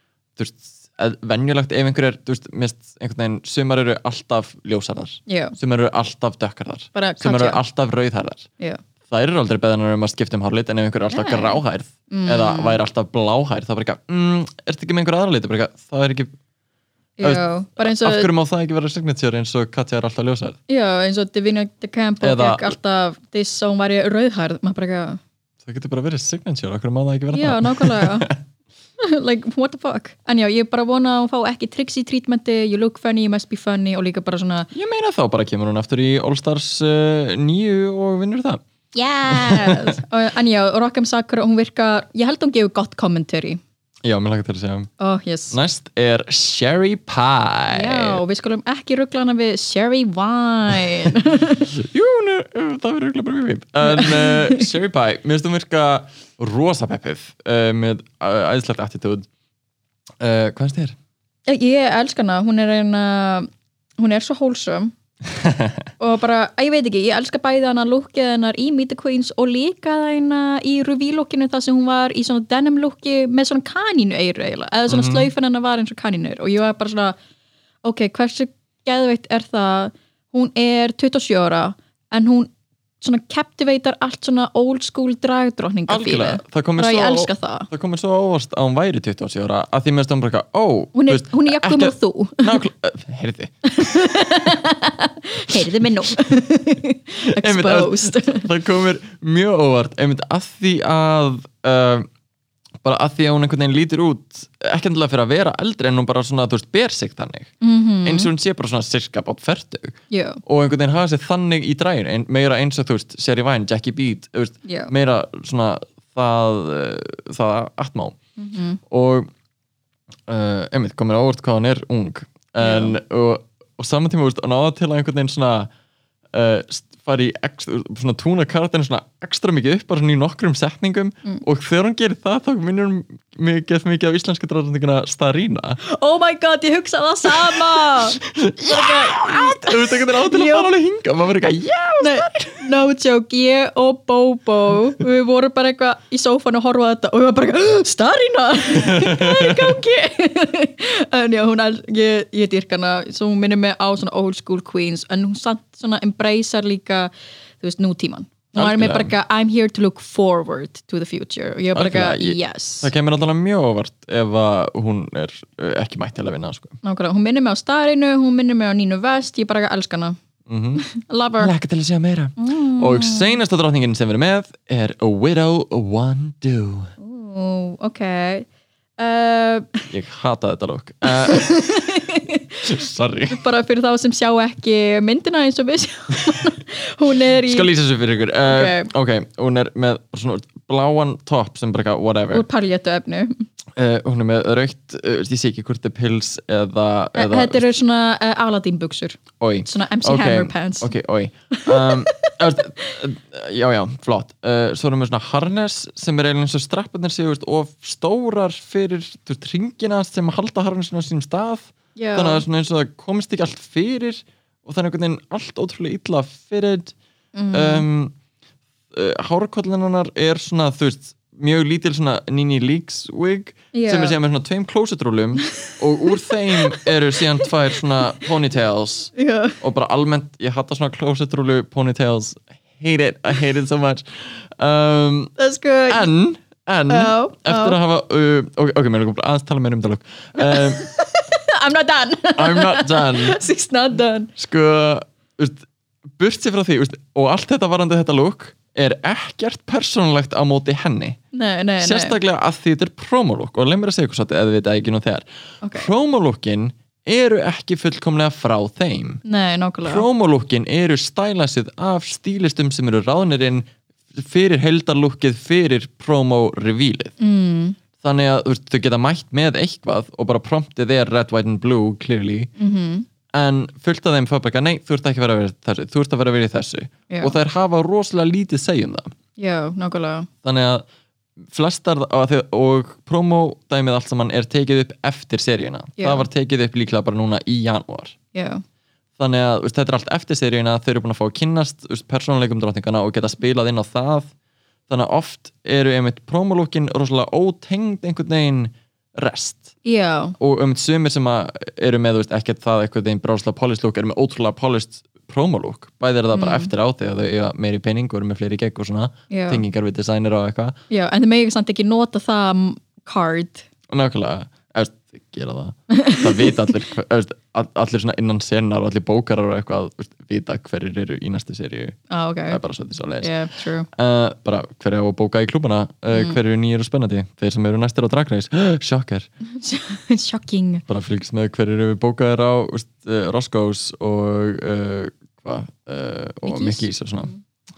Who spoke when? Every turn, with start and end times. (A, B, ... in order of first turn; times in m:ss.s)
0:00.4-0:08.5 A
0:05.3-0:05.6 B
0:06.9-0:07.6 B
0:09.1-0:16.3 A
0:11.1-0:12.8 B
0:17.2-0:18.3 B
0:17.2-0:20.6 A
0:20.7-0:25.2 B
0:22.2-0:22.8 A
0:25.6-0:28.4 A
0:27.3-0:28.3 B
0:29.0-0:34.7 B
0:34.7-0:38.6 A
0:38.9-0:43.6 B
0:39.3-0:40.0 A
0:44.0-0:44.9 A
0:45.0-0:45.6 B
0:45.5-0:48.2 A
0:47.7-0:51.7 B
0:51.7-0:59.3 A
0:53.8-0:54.7 B
1:00.2-1:01.0 A
1:01.5-1:05.0 B
1:05.3-1:05.8 A
1:06.0-1:17.2 B
1:14.9-1:15.3 A
1:17.8-1:27.7 B
1:25.9-1:33.5 A
1:31.0-1:32.6 B
1:33.6-1:38.5 B
1:35.5-1:35.9 A
1:37.3-1:42.1 A
1:42.8-1:47.5 A
1:47.6-1:48.3 B
1:48.0-1:58.2 A
1:50.1-1:50.4 B
1:54.6-1:54.9 B
1:58.4-1:58.8 B
1:58.9-1:59.3 A
2:00.3-2:05.7 A
2:02.6-2:03.0 B
2:06.3-2:15.8 A
2:15.8-2:20.7 B
2:17.3-2:22.6 A
2:22.0-2:42.9 B
2:28.7-2:29.8 A
2:38.5-2:39.1 A
2:41.7-2:46.8 A
2:46.8-2:50.2 B
2:50.5-2:50.8 A
2:50.8-2:51.5 B
2:51.4-2:56.9 A
2:52.4-2:53.4 B
2:57.0-2:58.5 B
2:59.0-2:59.9 B
2:59.9-3:01.5 A
3:01.0-3:02.6 B
3:02.6-3:03.4 A
3:03.3-3:07.7 B
3:07.4-3:12.4 A
3:08.4-3:08.9 B
3:12.3-3:13.4 B
3:13.8-3:17.6 A
3:17.1-3:21.0 B
3:19.4-3:36.9 A
3:21.5-3:23.0 B
3:32.0-3:32.4 B
3:37.4-3:37.8 B
3:37.5-3:38.1 A
3:38.9-3:55.3 A
3:43.7-3:44.2 B
3:45.4-3:46.9 B
3:49.2-3:49.6 B
3:55.4-3:56.1 B
3:55.9-4:00.9 A
3:56.9-3:57.8 B
4:00.4-4:04.3 B
4:02.4-4:03.4 A
4:04.4-4:05.6 A
4:06.2-4:11.2 A
4:11.3-4:12.2 B
4:11.8-4:19.2 A
4:15.6-4:15.9 B
4:19.2-4:20.1 B
4:19.8-4:27.1 A
4:27.2-4:27.8 B
4:28.0-4:32.5 A
4:32.6-4:33.1 B
4:33.3-4:39.1 A
4:37.1-4:37.4 B
4:39.4-4:40.3 B
4:40.4-4:40.9 A
4:41.5-4:48.1 A
4:46.0-4:46.2 B
4:48.3-4:48.6 B
4:49.2-4:54.3 A
4:54.9-4:59.8 A
4:59.8-5:00.4 B
5:00.4-5:10.8 A
5:06.3-5:06.7 B
5:09.3-5:09.6 B
5:10.9-5:13.7 B
5:13.9-5:22.0 A
5:15.9-5:16.7 B
5:22.1-5:22.6 B
5:22.5-5:23.3 A
5:23.2-5:23.9 B
5:23.9-5:29.3 A
5:26.1-5:26.4 B
5:29.4-5:30.8 B
5:30.9-5:37.3 A
5:36.4-5:37.4 B